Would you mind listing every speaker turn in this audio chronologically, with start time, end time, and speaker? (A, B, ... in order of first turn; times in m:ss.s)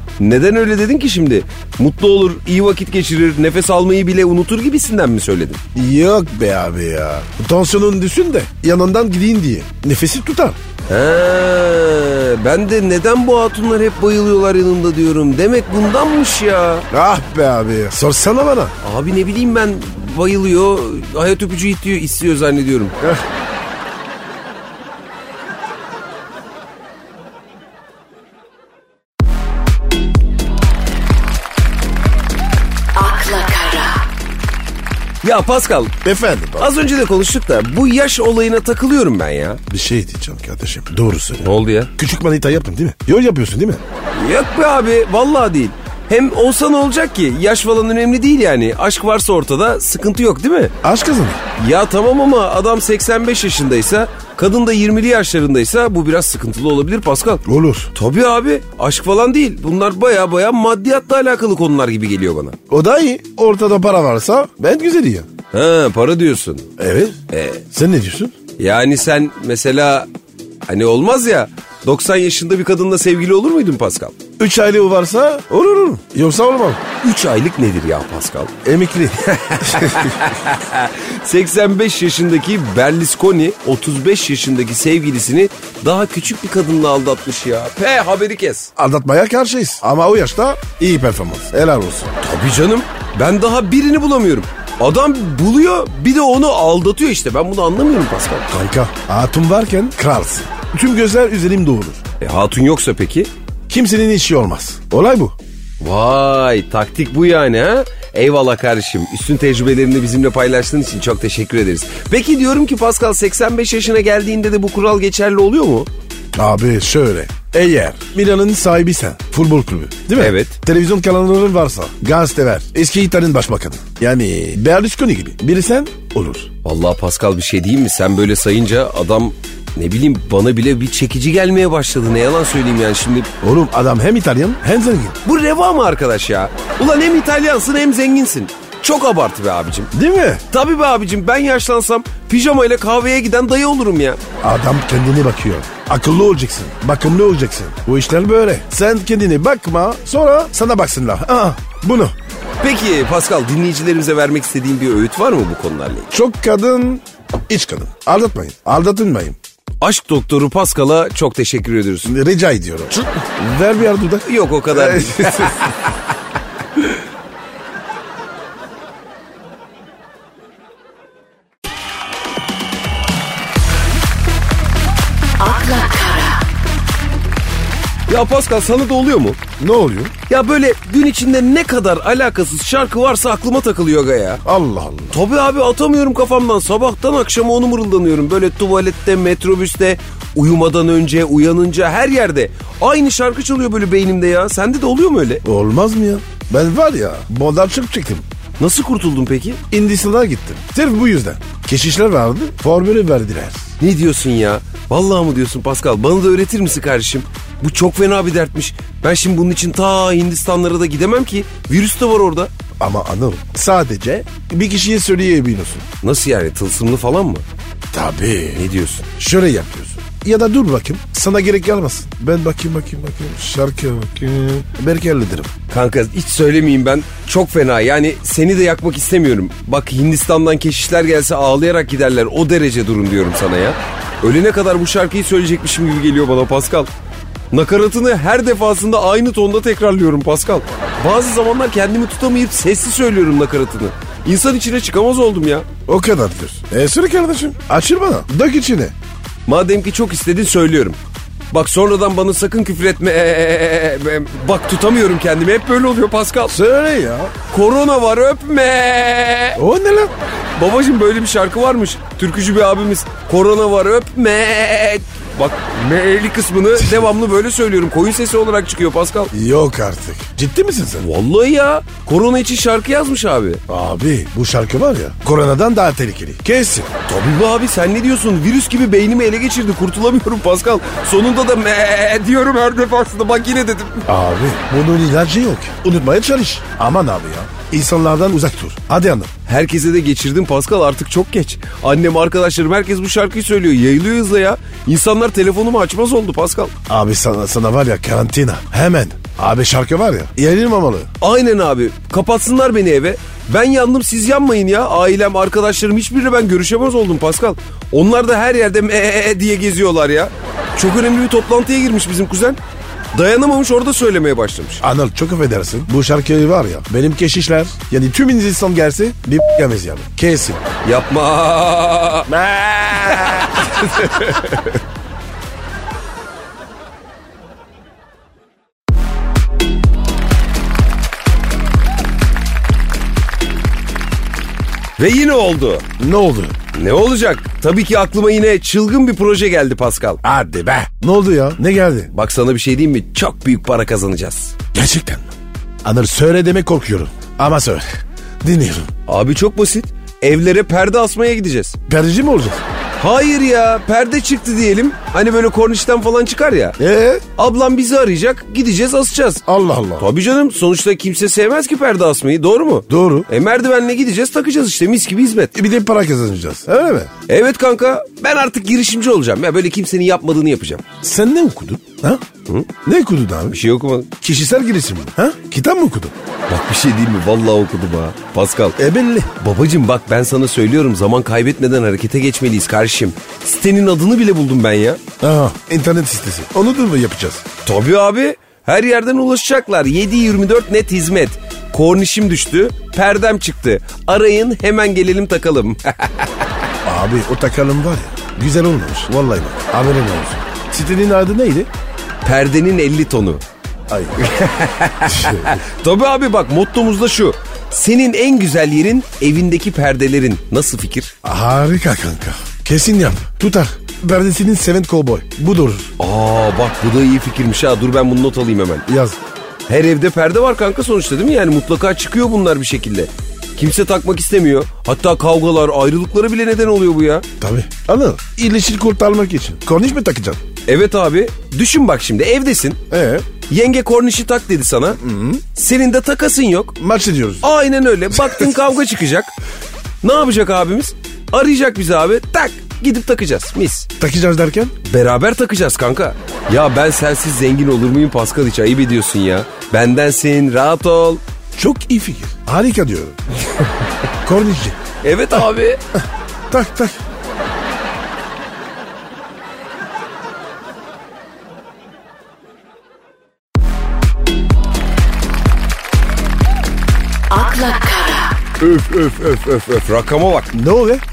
0:00.2-0:05.6 A
0:05.8-0:10.6 B
0:10.9-0:16.9 A
0:16.9-0:18.8 B
0:18.8-0:23.0 A
0:33.0-0:34.0 C
0:35.2-0:36.0 A
0:36.0-0:36.7 B
0:36.6-0:39.6 A
0:39.7-0:43.8 B
0:41.4-0:41.9 A
0:44.2-0:50.7 A
0:50.8-0:51.4 B
0:51.6-1:02.6 A
0:57.4-0:57.9 B
1:02.7-1:05.3 B
1:05.5-1:06.7 A
1:06.8-1:07.2 B
1:07.3-1:07.6 A
1:07.7-1:08.4 B
1:08.6-1:10.1 A
1:10.7-1:14.2 A
1:14.4-1:16.8 B
1:17.0-1:18.5 A
1:18.6-1:20.2 B
1:19.2-1:28.7 A
1:28.8-1:32.1 B
1:32.2-1:38.5 A
1:38.5-1:42.0 B
1:42.2-1:43.3 A
1:43.7-1:45.4 B
1:45.8-1:55.9 A
1:56.3-2:06.5 B
2:00.2-2:00.6 A
2:06.6-2:13.3 A
2:13.4-2:15.2 B
2:15.2-2:19.9 A
2:19.9-2:20.4 B
2:20.5-2:24.2 A
2:24.4-2:32.2 B
2:32.6-2:36.1 A
2:36.1-2:39.4 B
2:39.8-2:42.2 A
2:42.0-2:45.7 B
2:44.2-2:45.9 A
2:55.4-2:56.4 C
2:58.1-2:59.4 A
2:59.6-3:00.1 B
3:00.3-3:04.4 A
3:04.4-3:05.2 B
3:05.1-3:15.4 A
3:15.4-3:18.3 B
3:18.6-3:19.6 A
3:19.7-3:23.7 B
3:23.8-3:32.5 A
3:32.8-3:35.9 B
3:36.0-3:37.4 A
3:37.9-3:45.5 B
3:38.6-3:39.1 A
3:45.7-3:56.9 A
3:57.5-4:05.7 A
4:05.9-4:08.9 B
4:09.5-4:11.0 A
4:11.5-4:16.6 A
4:16.5-4:17.3 B
4:17.5-4:19.6 A
4:19.6-4:20.1 B
4:20.6-4:29.3 A
4:29.3-4:31.0 B
4:31.0-4:33.6 A
4:33.7-4:36.9 B
4:37.1-4:44.1 A
4:44.1-4:49.3 B
4:49.5-4:56.7 A
4:56.9-5:01.1 B
5:01.2-5:12.6 A
5:13.1-5:14.8 A
5:14.8-5:20.6 B
5:20.8-5:24.4 A
5:22.4-5:24.7 B
5:35.0-5:35.9 A
5:36.0-5:36.6 B
5:36.7-5:40.2 A
5:40.2-5:42.1 B
5:42.1-5:44.6 A
5:44.7-5:45.3 B
5:45.8-5:48.9 B
5:49.1-5:51.8 A
5:51.9-5:52.6 B
5:53.0-5:56.8 A
5:56.8-5:57.2 B
5:57.4-5:59.4 A
5:59.5-6:00.1 B
6:00.0-6:05.5 A
6:02.9-6:03.3 B
6:05.6-6:07.1 B
6:07.3-6:10.8 A
6:11.0-6:12.2 B
6:12.8-6:13.6 B
6:13.5-6:14.1 A
6:14.2-6:16.1 B
6:16.5-6:18.8 A
6:18.8-6:19.3 B
6:19.4-6:25.0 A
6:25.2-6:27.4 B
6:27.6-6:36.3 A
6:36.8-6:41.7 B
6:42.2-6:43.4 A
6:43.9-6:44.2 B
6:44.2-6:51.1 A
6:45.1-6:45.6 B
6:51.2-6:55.9 B
6:56.0-6:58.9 A
6:58.9-6:59.2 B
6:59.7-7:07.3 A
7:07.4-7:10.4 B
7:10.7-7:12.8 A
7:12.9-7:13.3 B
7:13.5-7:15.0 A
7:15.0-7:15.4 B
7:15.5-7:16.8 A
7:16.8-7:17.4 B
7:17.4-7:19.3 A
7:20.0-7:23.9 A
7:24.0-7:24.7 B
7:24.8-7:31.2 A
7:31.6-7:33.2 B
7:34.2-7:34.8 B
7:35.0-7:35.8 A
7:36.5-7:37.0 B
7:47.3-7:48.4 C
7:48.6-7:50.5 A
7:50.5-7:51.0 B